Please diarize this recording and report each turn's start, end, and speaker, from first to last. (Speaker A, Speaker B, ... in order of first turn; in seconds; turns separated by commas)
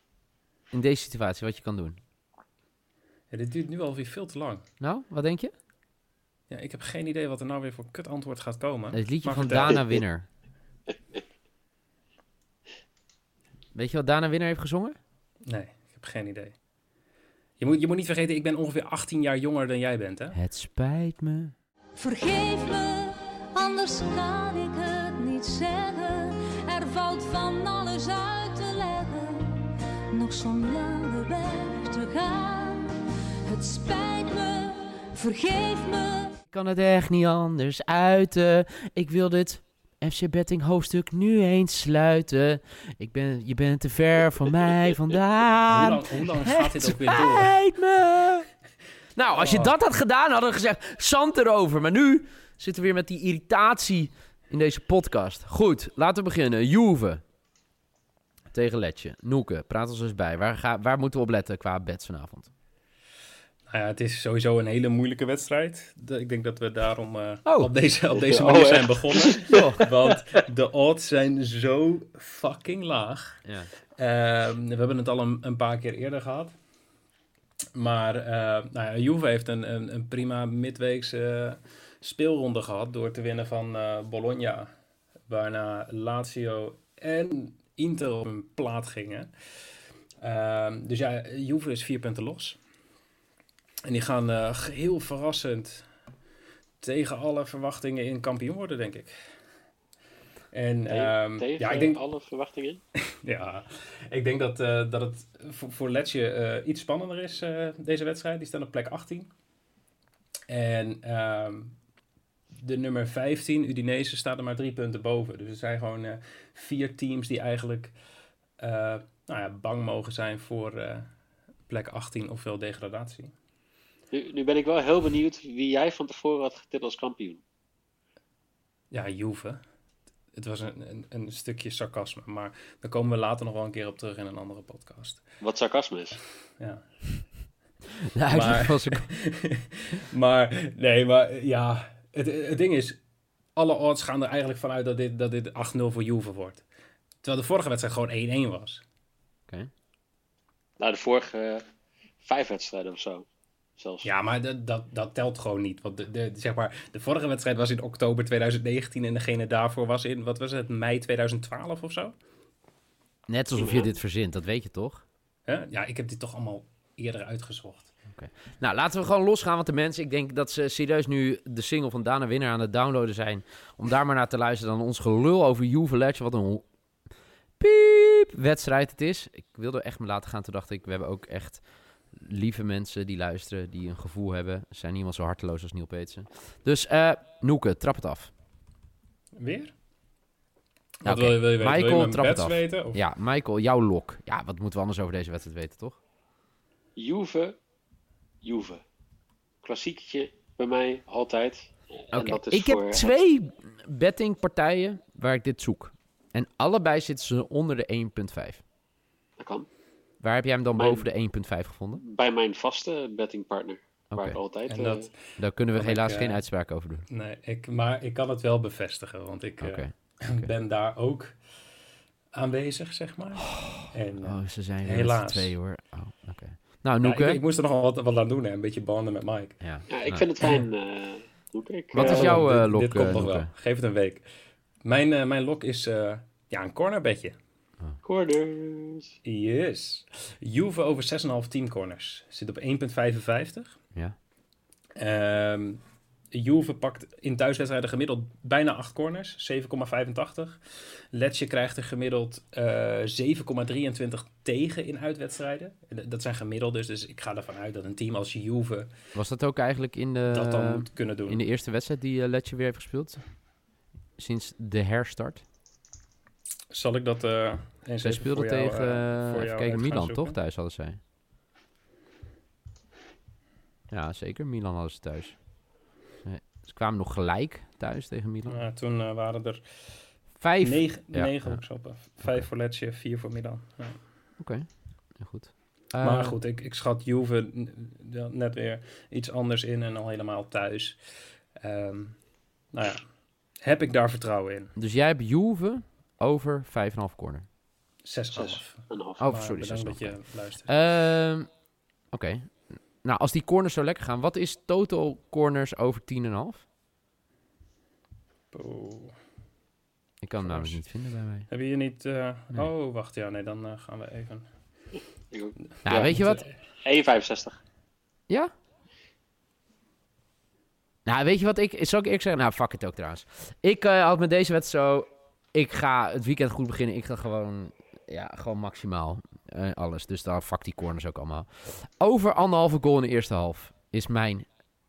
Speaker A: 0.7-2.0, Speaker B: 3.3-4.7, Speaker A: 4.8-5.5, Speaker B: 6.5-9.7, Speaker A: 8.9-10.3, Speaker A: 13.7-15.0, Speaker B: 15.4-16.5, Speaker B: 17.6-20.3, Speaker A: 20.3-21.5, Speaker C: 21.9-32.9, Speaker C: 33.5-36.4, Speaker A: 36.5-48.5, Speaker B: 45.7-47.5, Speaker A: 49.1-57.2, Speaker B: 49.3-49.7, Speaker A: 58.5-62.5, Speaker B: 63.7-73.4, Speaker D: 68.2-69.5, Speaker A: 69.5-69.8, Speaker A: 73.4-73.7, Speaker B: 74.0-76.5, Speaker B: 77.7-84.7, Speaker B: 85.3-89.3, Speaker B: 90.2-92.6, Speaker B: 93.8-95.9, Speaker B: 96.8-99.2, Speaker B: 100.5-102.0, Speaker D: 100.9-102.8, Speaker B: 103.2-109.3, Speaker B: 110.5-111.8, Speaker B: 112.5-118.0, Speaker B: 118.6-121.1, Speaker B: 121.7-123.3, Speaker D: 124.1-127.4, Speaker B: 128.9-129.6, Speaker B: 130.3-135.2, Speaker D: 135.4-136.2, Speaker B: 136.6-136.8, Speaker A: 138.1-139.1, Speaker B: 138.3-139.2, Speaker B: 140.1-143.0, Speaker B: 143.5-146.6, Speaker B: 147.2-148.8, Speaker D: 150.8-151.6, Speaker D: 152.2-153.2, Speaker D: 153.8-154.1, Speaker B: 154.0-162.1, Speaker A: 163.3-165.0, Speaker D: 163.6-163.9, Speaker B: 165.4-167.9, Speaker A: 168.1-176.7, Speaker A: 177.6-188.3, Speaker B: 189.3-189.7, Speaker B: 191.0-193.0, Speaker A: 191.0-196.0, Speaker D: 196.9-197.6, Speaker D: 198.4-198.8, Speaker D: 199.6-203.2, Speaker A: 202.1-208.6, Speaker D: 209.4-209.7, Speaker A: 210.2-212.0, Speaker D: 210.7-211.1, Speaker D: 212.0-215.1, Speaker A: 214.1-214.4, Speaker B: 214.7-216.4, Speaker A: 215.4-217.0, Speaker B: 217.1-221.4, Speaker A: 219.6-220.5, Speaker B: 222.3-225.5, Speaker A: 223.6-227.4, Speaker B: 227.0-229.6, Speaker A: 229.6-230.3, Speaker D: 229.9-232.4, Speaker A: 231.9-233.5, Speaker B: 231.9-234.3, Speaker B: 234.8-237.3, Speaker D: 238.0-239.1, Speaker B: 239.2-243.7, Speaker B: 244.9-258.9, Speaker A: 259.1-263.4, Speaker B: 260.3-261.4, Speaker A: 264.2-265.4, Speaker B: 266.7-270.4, Speaker A: 268.0-271.0, Speaker A: 273.9-275.5, Speaker A: 276.2-278.6, Speaker B: 278.5-280.1, Speaker A: 280.4-281.6, Speaker B: 280.6-284.0, Speaker A: 282.2-282.4, Speaker A: 284.4-286.4, Speaker B: 286.0-292.2, Speaker B: 292.7-294.7, Speaker A: 294.8-297.5, Speaker B: 298.0-300.7, Speaker D: 298.3-299.3, Speaker A: 299.2-301.5, Speaker A: 302.1-306.6, Speaker B: 308.5-309.2, Speaker A: 310.2-311.5, Speaker B: 310.4-310.8, Speaker B: 311.5-314.5, Speaker D: 315.3-316.2, Speaker A: 315.8-316.4, Speaker B: 315.9-316.5, Speaker D: 316.8-317.6, Speaker A: 321.1-334.5